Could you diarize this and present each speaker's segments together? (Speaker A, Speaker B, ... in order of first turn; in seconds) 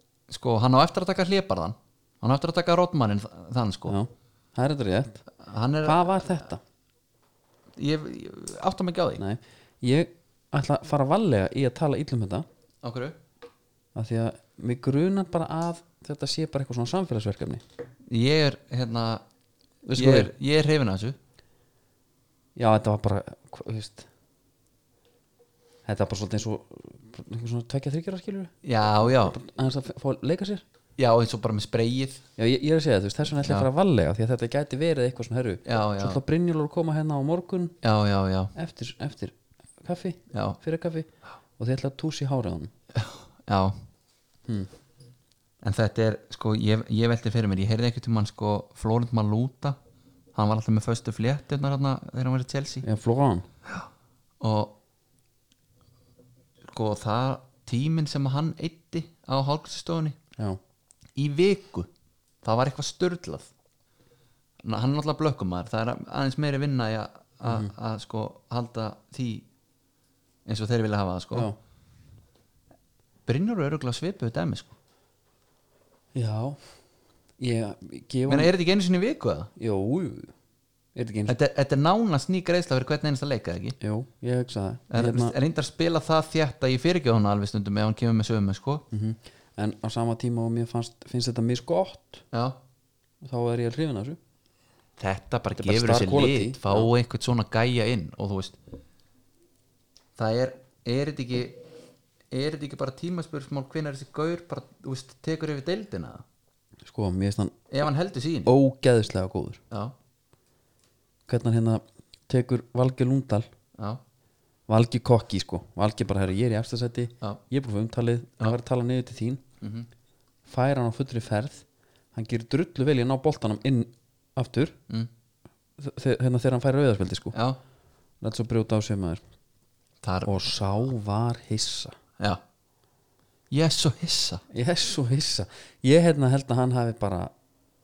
Speaker A: 0.3-4.0, 5.4-6.3, 7.8-9.2, 12.8-13.2, 18.1-19.2, 19.9-21.2, 28.6-29.4, 31.0-32.2, 35.7-36.2, 37.8-38.5, 40.3-40.6, 43.0-43.8, 45.6-49.8, 50.4-52.9, 54.4-54.8, 56.7-60.2, 61.2-61.9, 62.4-63.5, 64.6-69.5, 70.5-71.5, 73.3-74.7, 78.3-79.5, 81.3-83.8, 84.9-88.8, 92.3-92.6, 95.0-98.6, 100.2-101.6, 102.3-106.2, 107.7-108.5, 119.6-119.9, 127.3-127.6, 130.0-130.4, 133.5-134.4
Speaker B: 3.9-5.2, 5.8-6.6, 9.2-12.5, 13.9-17.6, 19.8-20.3, 22.6-24.1, 25.9-30.6, 32.4-37.8, 38.5-42.7, 52.8-53.5, 67.5-67.7, 76.1-76.6, 77.4-78.5, 79.6-80.3, 81.0-81.4, 83.8-85.4, 88.9-92.2, 93.2-94.2, 95.6-96.9, 106.8-107.6, 108.5-109.6, 111.3-113.5, 114.7-119.4, 120.5-124.8, 125.8-127.3, 128.2-129.2, 130.2-132.0, 134.5-137.3